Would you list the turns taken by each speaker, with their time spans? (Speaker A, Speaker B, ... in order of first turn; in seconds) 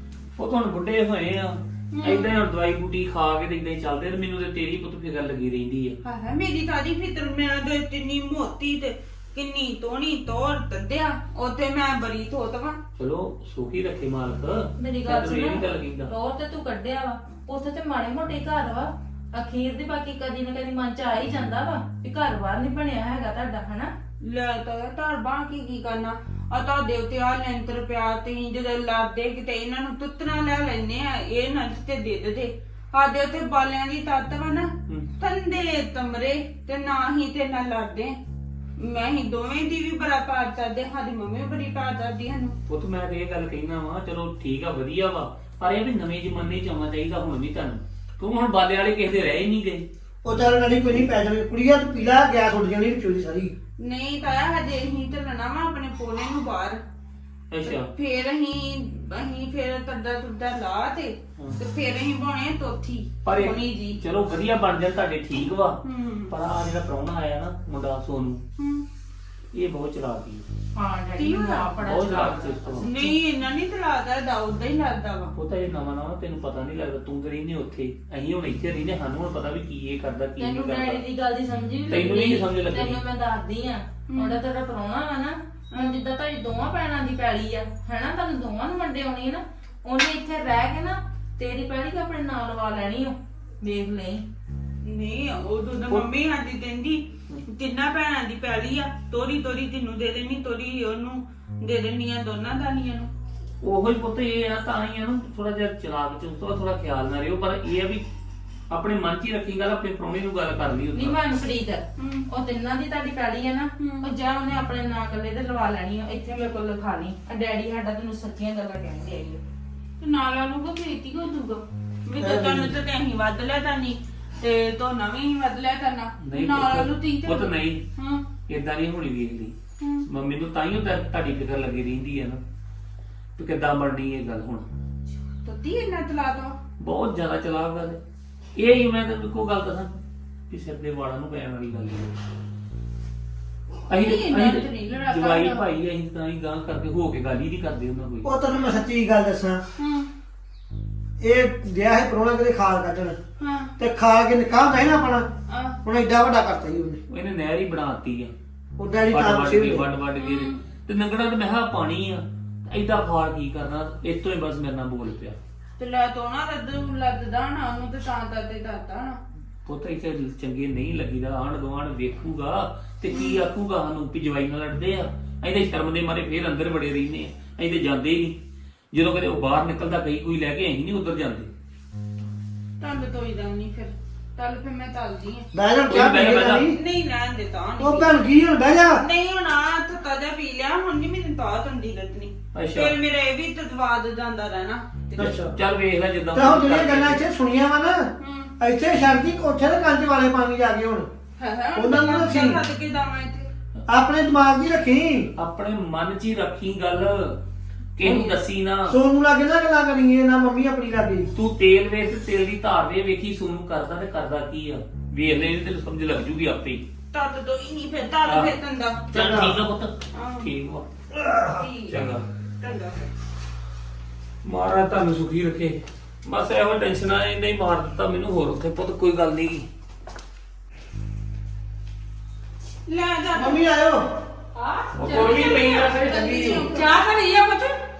Speaker A: 0.4-6.0, 13.0-16.1, 42.7-49.9, 57.5-57.9, 63.2-68.4, 69.5-70.4, 71.8-72.9, 75.3-81.0, 81.9-83.0, 103.6-108.0, 108.7-111.2, 126.2-127.8, 128.5-129.5, 130.1-132.4, 133.4-134.6, 136.8-138.0, 138.6-140.0, 140.5-142.1, 143.9-148.3, 157.1-158.3, 159.1-165.4, 169.7-178.3, 178.9-181.5, 185.9-186.7, 192.5-192.9, 195.2-197.2, 205.4-207.4, 207.9-208.9, 211.3-216.8, 218.2-218.5, 219.1-220.8, 221.9-222.2, 224.4-229.6, 235.0-236.7
Speaker B: 1.9-2.3, 6.0-12.7, 24.2-38.1, 38.8-42.5, 53.8-56.8, 57.9-63.9, 65.8-66.3, 68.6-68.8, 71.1-71.7, 72.8-75.3, 84.1-84.3, 85.7-86.0, 94.8-103.1, 112.0-112.2, 113.8-114.1, 120.0-128.2, 129.8-130.0, 135.4-136.6, 144.0-145.7, 149.8-150.1, 153.4-153.7, 155.5-155.8, 160.2-160.6, 165.8-169.2, 173.1-173.4, 182.8-185.5, 186.7-188.1, 189.0-195.1, 198.2-198.5, 201.4-203.5, 217.1-219.0, 220.1-220.5, 222.6-223.1, 232.9-233.6, 235.1-237.0
Speaker C: 14.8-23.9, 70.8-73.2, 80.4-94.2, 110.9-119.4
Speaker D: 50.2-53.5, 122.2-122.7, 148.2-149.6, 151.2-153.2, 153.8-155.2, 155.8-157.0, 158.8-159.9, 185.5-186.8, 187.8-189.0, 195.1-195.5, 196.3-198.1, 198.6-201.1, 201.7-202.6, 203.9-205.3, 208.9-211.3, 219.1-219.6, 221.1-221.6, 233.3-234.0
Speaker E: 234.5-235.8, 236.7-237.7